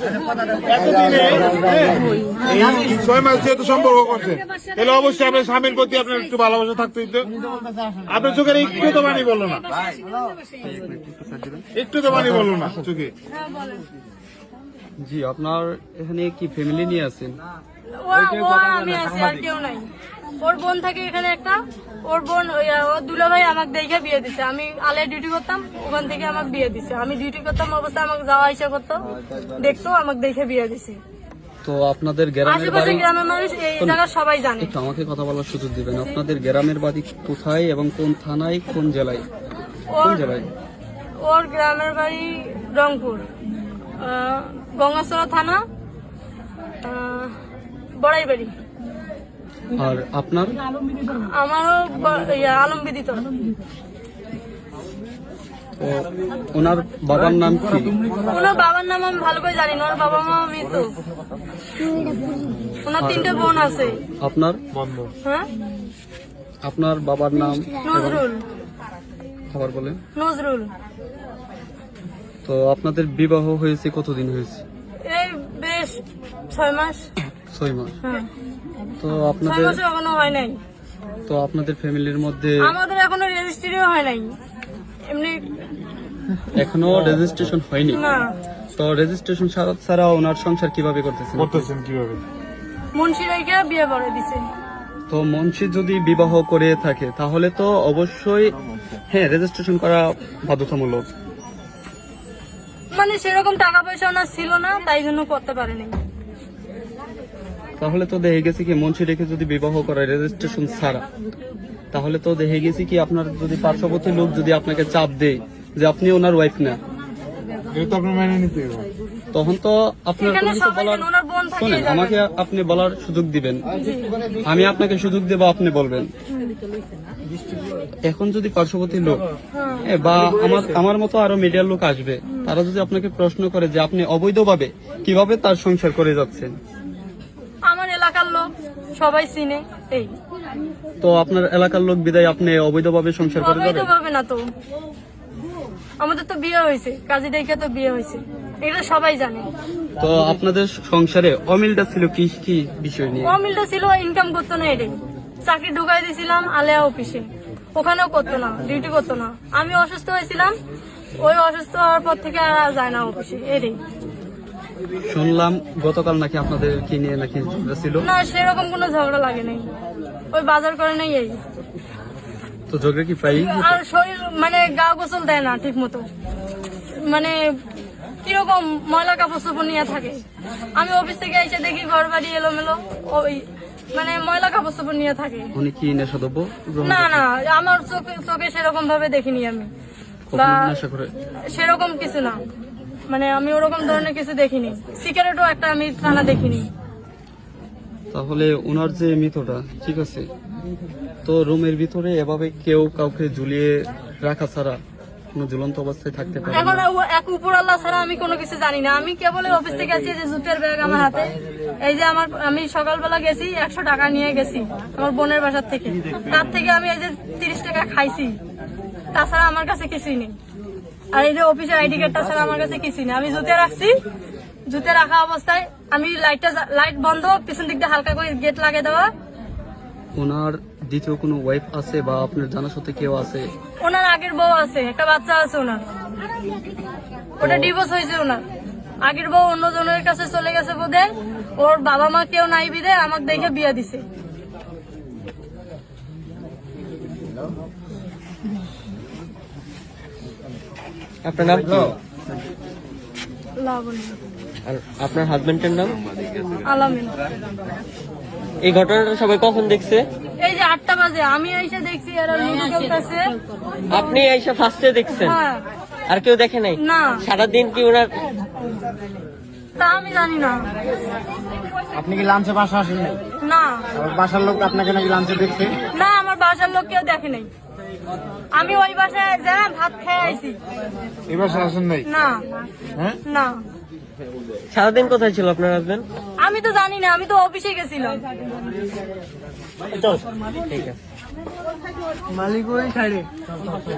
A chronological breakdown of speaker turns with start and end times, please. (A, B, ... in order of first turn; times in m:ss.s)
0:00.6-0:07.3 A
0:08.0-0:09.7 A
0:10.6-0:12.4 B
0:11.8-0:13.1 A
0:13.3-0:13.8 C
0:15.0-0:17.3 B
0:18.0-0:29.0 C
0:29.6-0:31.0 C
0:31.6-0:33.1 B
0:32.5-0:34.7 C
0:34.6-0:39.3 B
0:39.9-0:40.3 C
0:40.0-0:40.5 B
0:41.2-0:43.3 C
0:44.0-0:45.6 C
0:46.8-0:47.4 C
0:48.0-0:48.5 C
0:49.7-0:50.6 B
0:51.1-0:53.3 C
0:55.8-0:58.0 B
0:58.3-1:00.9 C
1:02.8-1:04.0 C
1:03.0-1:03.6 B
1:04.2-1:04.6 B
1:04.7-1:05.1 A
1:06.6-1:08.2 B
1:07.9-1:08.4 C
1:09.5-1:10.0 B
1:10.2-1:10.7 C
1:12.4-1:14.6 B
1:15.1-1:16.0 C
1:16.5-1:17.1 C
1:17.5-1:18.0 B
1:19.0-1:19.8 B
1:19.4-1:20.6 C
1:21.3-1:22.8 B
1:22.6-1:24.4 C
1:25.1-1:25.4 C
1:26.5-1:28.0 B
1:28.0-1:28.3 C
1:28.8-1:31.7 B
1:31.4-1:32.2 A
1:33.0-1:34.4 C
1:35.1-1:38.6 B
1:39.1-1:41.1 B
1:42.9-1:46.0 C
1:47.8-1:51.0 B
1:51.9-1:56.8 B
1:57.7-1:58.9 A
1:59.3-2:03.7 B
2:00.2-2:02.2 C
2:03.8-2:04.1 C
2:04.4-2:06.1 B
2:06.3-2:06.6 C
2:08.0-2:09.2 B
2:09.5-2:09.9 C
2:09.8-2:16.5 B
2:17.7-2:20.1 C
2:21.0-2:23.9 B
2:23.4-2:24.5 C
2:26.0-2:29.5 C
2:30.0-2:33.4 B
2:33.2-2:37.2 C
2:37.8-2:40.5 C
2:41.2-2:43.8 C
2:45.1-2:48.1 B
2:48.0-2:49.7 C
2:50.3-2:51.4 C
2:52.7-2:53.8 B
2:53.4-2:56.1 C
2:57.0-2:57.6 C
2:58.2-3:00.2 C
3:00.8-3:05.5 C
3:05.6-3:07.2 B
3:06.8-3:09.7 C
3:10.3-3:11.1 B
3:10.3-3:10.7 C
3:11.5-3:12.4 C
3:13.1-3:16.7 C
3:18.1-3:20.3 B
3:21.2-3:24.8 B
3:25.3-3:26.9 B
3:26.5-3:38.4 C
3:39.1-3:40.4 C
3:41.1-3:44.0 C
3:44.7-3:49.1 C
3:50.2-3:53.5 B
3:53.8-3:55.8 C
3:57.4-3:58.4 C
3:57.4-3:57.7 B
3:59.0-4:04.1 C
4:11.2-4:12.0 D
4:13.6-4:14.2 C
4:14.6-4:16.0 D
4:16.7-4:17.1 C
4:18.6-4:20.0 D
4:20.4-4:23.2 C
4:23.9-4:25.4 D
4:25.2-4:25.6 C
4:26.1-4:28.1 D
4:26.8-4:27.2 C
4:29.8-4:30.6 C
4:32.0-4:33.2 E
4:33.4-4:33.9 C
4:34.0-4:35.8 E
4:36.0-4:37.5 C
4:38.6-4:40.6 C
4:41.3-4:42.0 A
4:42.1-4:42.4 C
4:43.2-4:43.6 C
4:44.7-4:46.0 D
4:46.4-4:48.2 C
4:50.7-4:51.0 D
4:52.5-4:53.1 E